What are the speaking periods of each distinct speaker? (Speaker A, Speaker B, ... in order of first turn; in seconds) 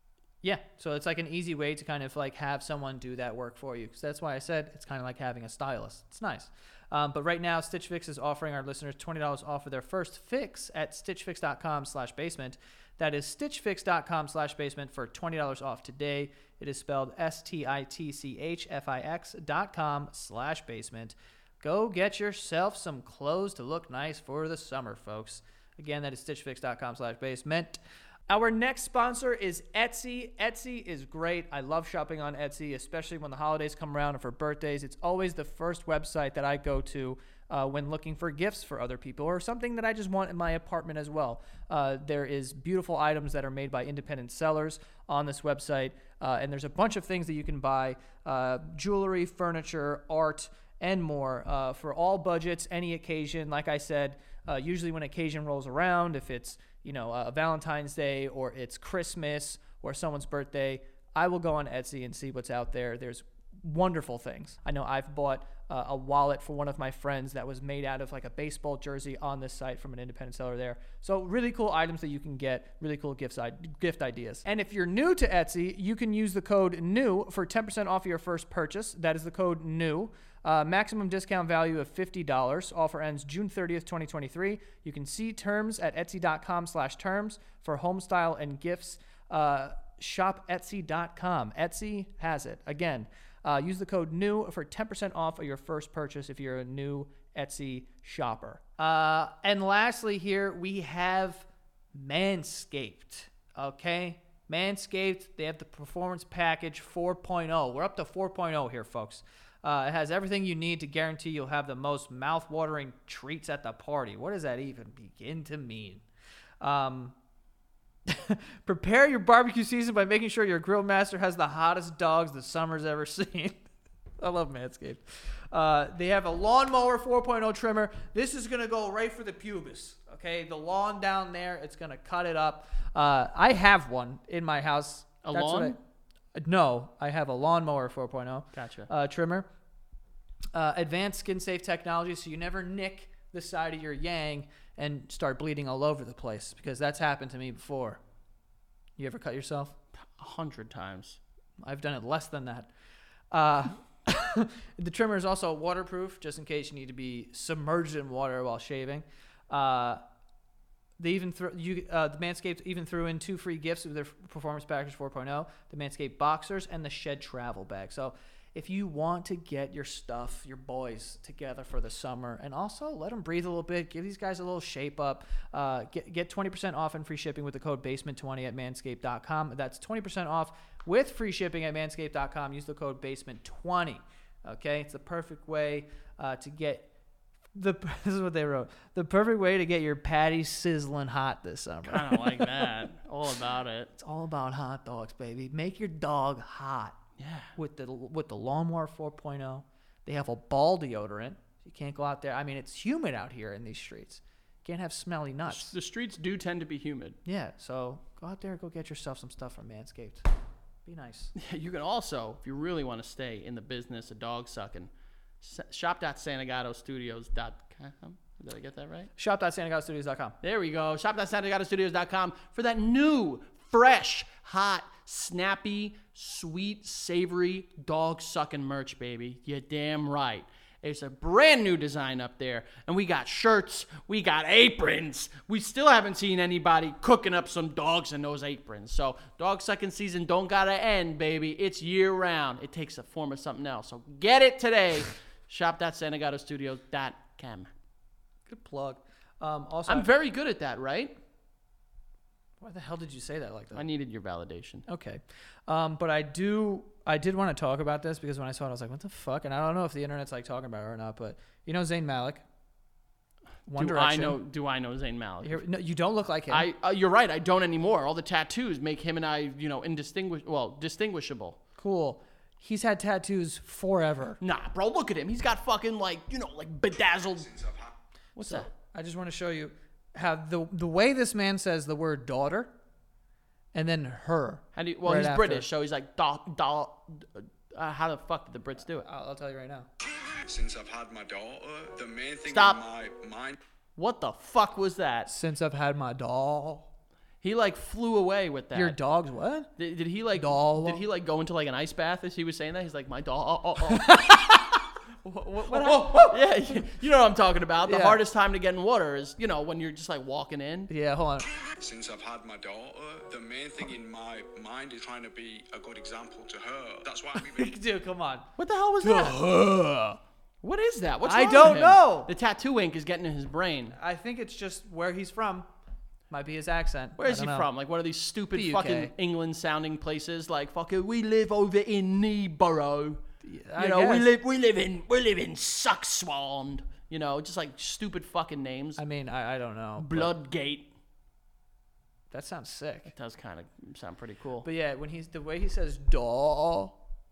Speaker A: 0.4-116.0, 116.6-117.1, 118.1-123.6, 124.2-135.8, 136.3-139.4, 140.5-148.0, 149.0-149.7, 151.6-152.7, 153.3-160.0, 161.0-186.9, 187.5-192.7, 193.9-197.0, 197.6-205.7, 207.2-210.2, 210.8-211.3, 219.2-220.3, 248.5-250.1, 252.6-253.8, 254.9-262.4, 263.7-264.4, 265.4-266.7, 271.8-274.4, 278.4-282.7, 283.7-285.7, 289.0-289.9, 295.3-296.9, 298.7-299.7, 300.3-301.0, 303.9-304.8, 305.3-306.8, 307.8-308.2, 310.9-311.5, 317.4-318.5, 319.0-320.2, 321.2-322.3, 323.9-325.7, 326.3-327.7, 328.5-329.1, 333.4-334.3, 339.0-340.3, 342.3-343.1, 344.6-347.0
Speaker B: 135.2-135.8, 138.5-138.9, 150.1-151.2, 191.8-193.9, 197.2-197.5, 205.5-207.2, 211.3-214.9, 215.4-219.1, 220.4-247.7, 249.9-251.2, 253.7-254.9, 263.8-265.6, 266.5-271.6, 274.4-277.5, 278.4-278.7, 284.7-289.1, 292.5-292.8, 294.0-295.3, 297.4-299.0, 299.8-304.6, 305.2-310.9, 318.6-319.5, 320.6-323.9, 327.2-333.2, 333.8-339.0, 340.0-340.9, 343.1-344.7
Speaker C: 277.4-277.9, 290.3-293.6, 311.8-317.7